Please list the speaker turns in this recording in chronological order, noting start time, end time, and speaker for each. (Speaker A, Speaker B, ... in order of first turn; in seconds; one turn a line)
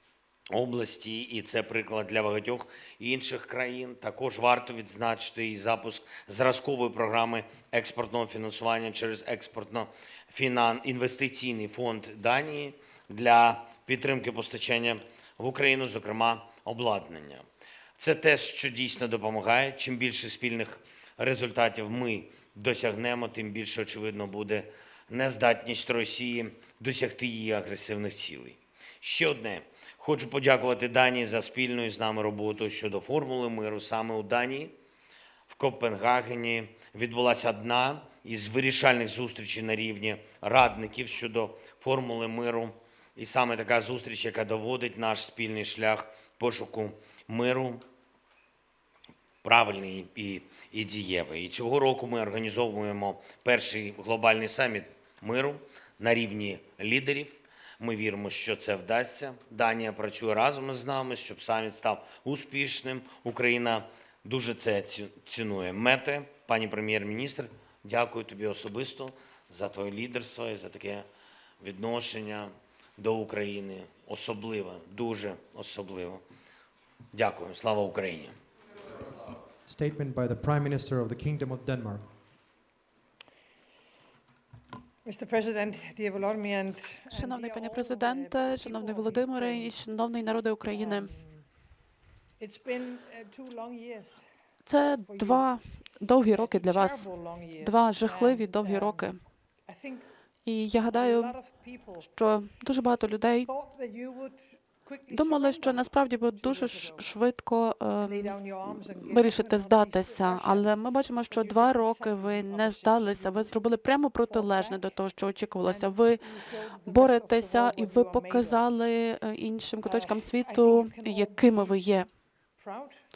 Speaker A: 0.5-17.4
Speaker A: 18.0-34.7
Speaker A: 35.5-47.8
Speaker A: 49.4-71.0
Speaker A: 71.6-76.2
Speaker A: 77.1-78.3
Speaker B: 79.7-82.1
Speaker C: 85.0-89.8
Speaker D: 87.1-91.1
Speaker C: 90.7-91.5
Speaker C: 92.4-94.3
Speaker D: 94.7-99.2
Speaker C: 95.1-95.5
Speaker C: 96.3-100.1
Speaker D: 100.5-101.4
Speaker C: 100.8-102.1
Speaker D: 102.0-103.5
Speaker C: 103.4-107.1
Speaker D: 105.1-116.2
Speaker C: 108.0-110.7
Speaker C: 111.3-113.6
Speaker C: 114.2-114.8
Speaker C: 115.7-118.7
Speaker D: 116.9-122.1
Speaker C: 119.8-123.0